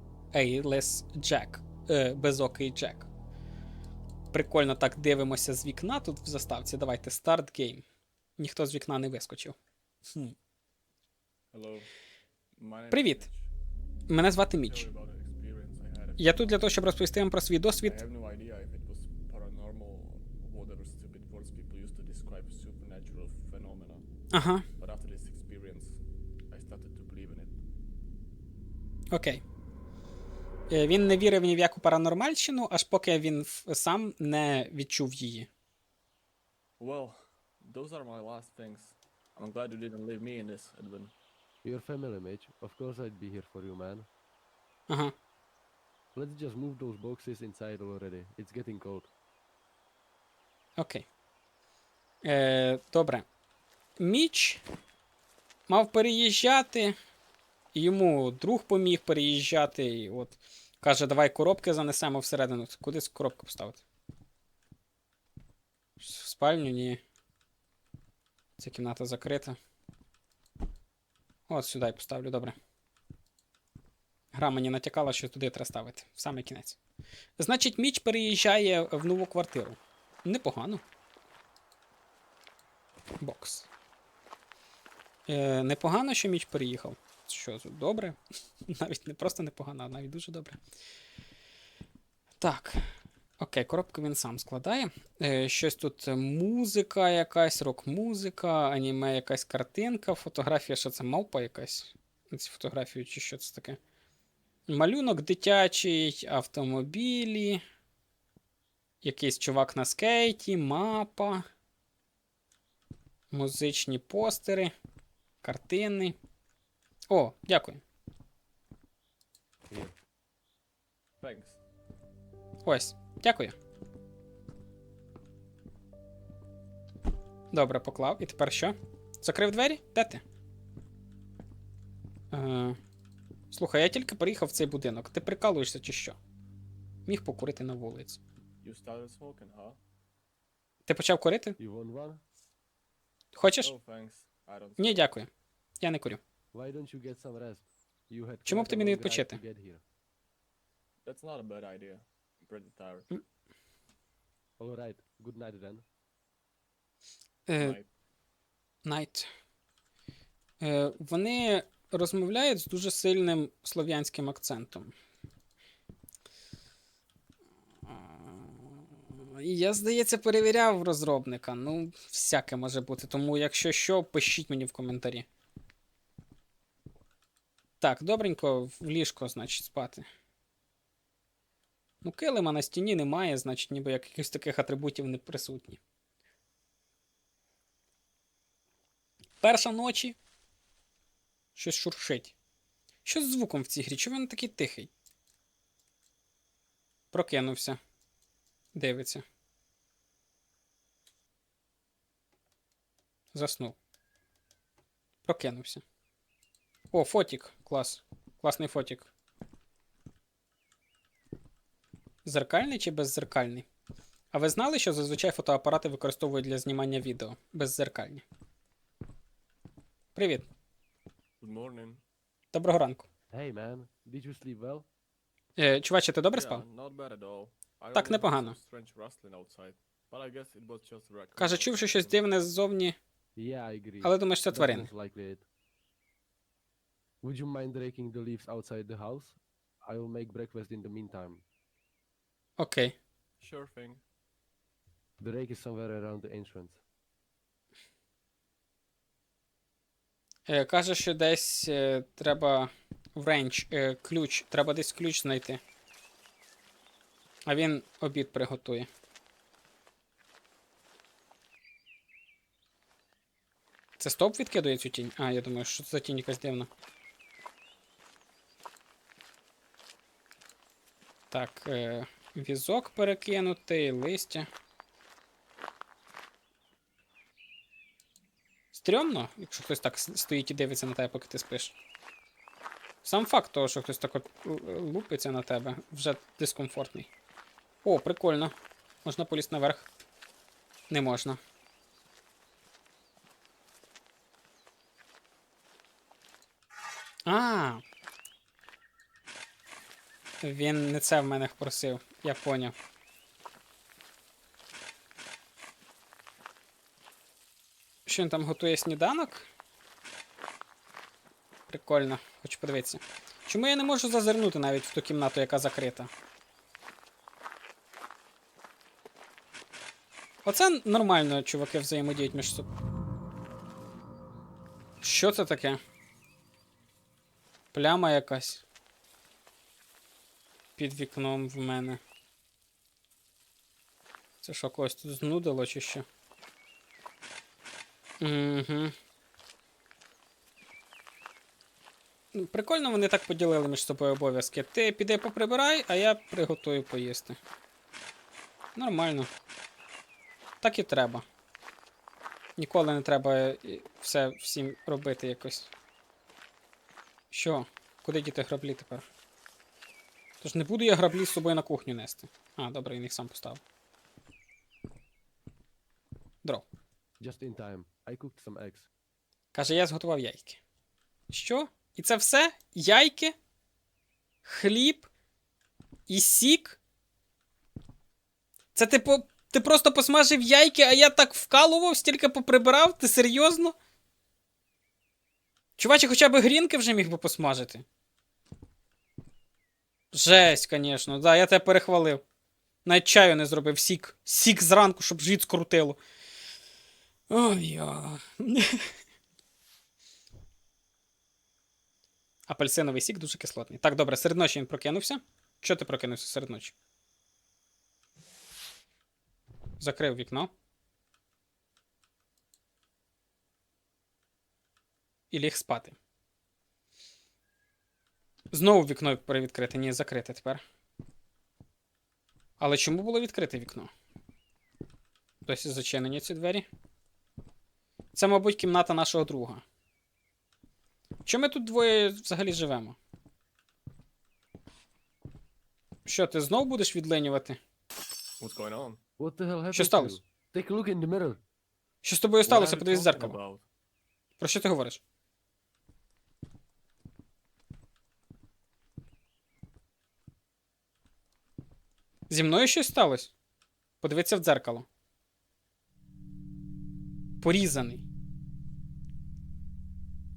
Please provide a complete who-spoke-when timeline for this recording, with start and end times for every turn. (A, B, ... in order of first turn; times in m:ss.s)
0:00.3-0:03.1 A
0:04.3-0:07.8 A
0:08.4-0:09.6 A
0:11.5-0:11.9 B
0:12.6-0:13.5 B
0:12.9-0:13.3 A
0:14.1-0:14.9 A
0:14.6-0:16.7 B
0:16.2-0:18.0 A
0:17.8-0:24.1 B
0:24.3-0:24.6 A
0:24.8-0:26.0 B
0:26.5-0:27.6 B
0:29.1-0:29.4 A
0:30.7-0:35.5 A
0:36.8-0:41.1 B
0:41.6-0:44.1 C
0:44.9-0:45.1 A
0:46.1-0:49.1 C
0:50.8-0:51.1 A
0:52.2-0:53.3 A
0:54.0-0:54.6 A
0:55.7-0:57.0 A
0:57.7-1:03.8 A
1:06.0-1:07.0 A
1:08.6-1:09.6 A
1:11.5-1:12.6 A
1:14.3-1:16.8 A
1:17.4-1:20.8 A
1:23.2-1:23.7 A
1:25.3-1:30.6 A
1:32.4-1:32.8 A
1:33.4-1:43.8 A
1:44.7-1:47.6 A
1:49.0-1:51.4 A
1:53.3-1:54.7 A
1:55.4-1:56.2 A
1:57.1-1:57.8 A
2:01.2-2:01.6 B
2:02.6-2:03.5 A
2:07.5-2:10.2 A
2:12.3-2:12.8 A
2:13.5-2:16.2 A
2:17.1-2:18.2 A
2:18.6-2:19.8 B
2:20.9-2:21.6 A
2:21.6-2:22.2 C
2:23.3-2:23.7 A
2:23.6-2:25.1 B
2:24.8-2:26.2 A
2:26.5-2:29.8 C
2:28.4-2:29.4 A
2:31.0-2:33.1 B
2:34.6-2:35.8 C
2:37.5-2:37.8 A
2:37.6-2:37.9 B
2:38.8-2:39.3 A
2:40.6-2:44.9 A
2:47.9-2:55.3 A
2:57.8-3:00.0 A
3:02.0-3:05.8 A
3:09.4-3:10.2 A
3:11.6-3:12.3 A
3:13.0-3:14.9 A
3:17.1-3:17.8 A
3:18.7-3:19.2 A
3:23.3-3:23.8 A
3:25.2-3:25.8 A
3:26.9-3:29.1 A
3:32.2-3:33.7 A
3:34.3-3:38.2 A
3:40.2-3:40.5 A
3:41.4-3:42.0 B
3:42.5-3:43.1 A
3:43.3-3:44.9 C
3:45.6-3:46.7 A
3:46.3-3:52.2 B
3:47.9-3:48.6 A
3:51.4-3:53.0 A
3:53.4-3:55.5 C
3:54.0-3:54.9 A
3:57.2-4:01.4 C
4:02.6-4:03.0 A
4:03.4-4:04.0 B
4:05.2-4:06.8 C
4:10.5-4:15.6 A
4:17.5-4:18.9 A
4:24.0-4:26.7 A
4:31.3-4:34.5 A
4:38.7-4:41.8 A
4:43.0-4:47.1 A
4:47.8-4:48.5 A
4:49.0-4:49.9 A
4:50.9-4:51.4 A
4:57.3-4:57.8 A
5:00.4-5:02.7 A
5:08.1-5:09.4 A
5:11.7-5:16.1 A
5:20.4-5:22.7 A
5:25.0-5:25.8 A
5:27.7-5:28.6 A
5:30.8-5:32.0 A
5:34.4-5:36.0 A
5:38.2-5:38.9 A
5:42.3-5:47.4 A
5:48.8-5:49.3 A
5:50.6-5:51.2 A
5:52.6-5:55.7 A
5:57.3-5:59.0 A
6:00.4-6:03.6 A
6:07.2-6:08.9 C
6:09.5-6:10.6 A
6:11.3-6:13.4 A
6:14.4-6:15.1 A
6:16.1-6:16.8 A
6:18.8-6:23.8 A
6:25.8-6:27.8 A
6:30.1-6:32.2 A
6:32.8-6:36.0 A
6:37.3-6:38.9 A
6:42.5-6:46.8 A
6:49.8-6:50.5 A
6:55.3-6:56.0 A
6:58.5-7:00.6 A
7:02.6-7:03.9 A
7:05.4-7:06.7 A
7:08.1-7:09.6 A
7:11.3-7:13.0 A
7:16.1-7:17.6 A
7:18.4-7:19.0 B
7:19.2-7:21.4 C
7:19.7-7:20.2 A
7:22.0-7:23.4 A
7:22.4-7:23.6 B
7:24.4-7:25.0 A
7:32.3-7:33.3 A
7:34.0-7:34.9 A
7:37.4-7:38.0 A